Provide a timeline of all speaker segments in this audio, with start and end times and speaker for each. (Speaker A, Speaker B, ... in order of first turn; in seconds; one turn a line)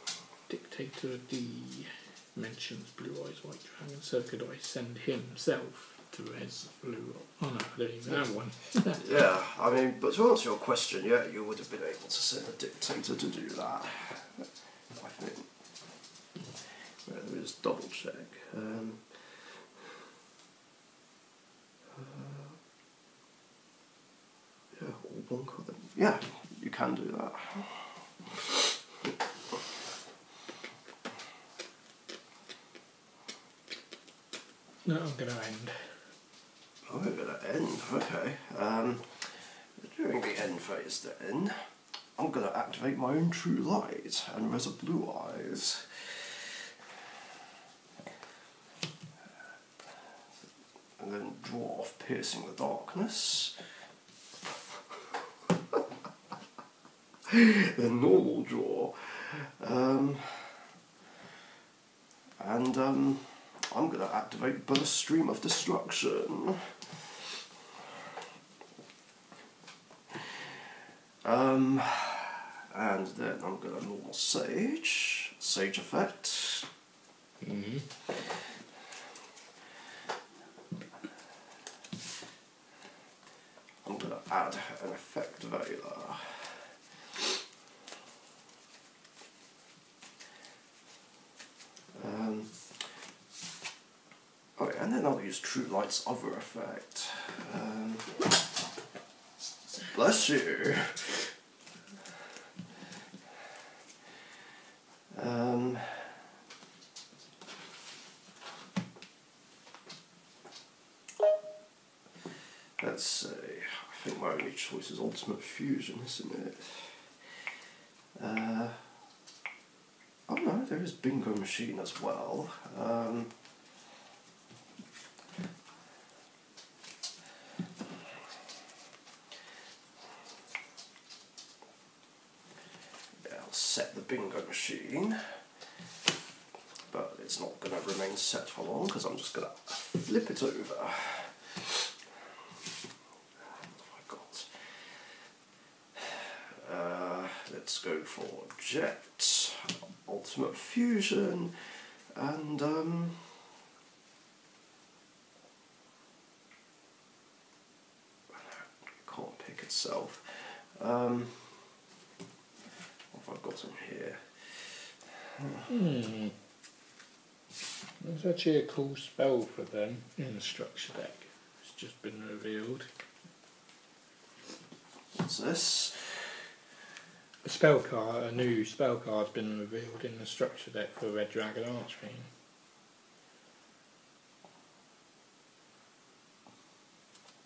Speaker A: 0.5-9.1
Speaker B: 8.9-15.5
Speaker B: 17.1-19.6
Speaker B: 21.9-22.6
Speaker B: 24.7-29.1
Speaker A: 34.8-35.9
Speaker B: 36.9-41.6
Speaker B: 42.1-46.4
Speaker B: 51.0-53.6
Speaker B: 57.3-60.7
Speaker B: 62.4-66.8
Speaker B: 71.2-76.7
Speaker A: 77.4-77.9
Speaker B: 83.8-86.7
Speaker B: 91.9-92.8
Speaker B: 94.5-98.3
Speaker B: 99.7-101.3
Speaker B: 105.1-106.2
Speaker B: 112.8-117.1
Speaker B: 118.2-118.8
Speaker B: 120.3-123.3
Speaker B: 133.2-135.2
Speaker B: 136.9-141.9
Speaker B: 143.5-144.6
Speaker B: 145.9-153.4
Speaker B: 158.3-161.6
Speaker B: 163.1-165.7
Speaker A: 165.7-166.4
Speaker A: 168.0-172.9
Speaker B: 175.1-176.3
Speaker A: 177.4-182.3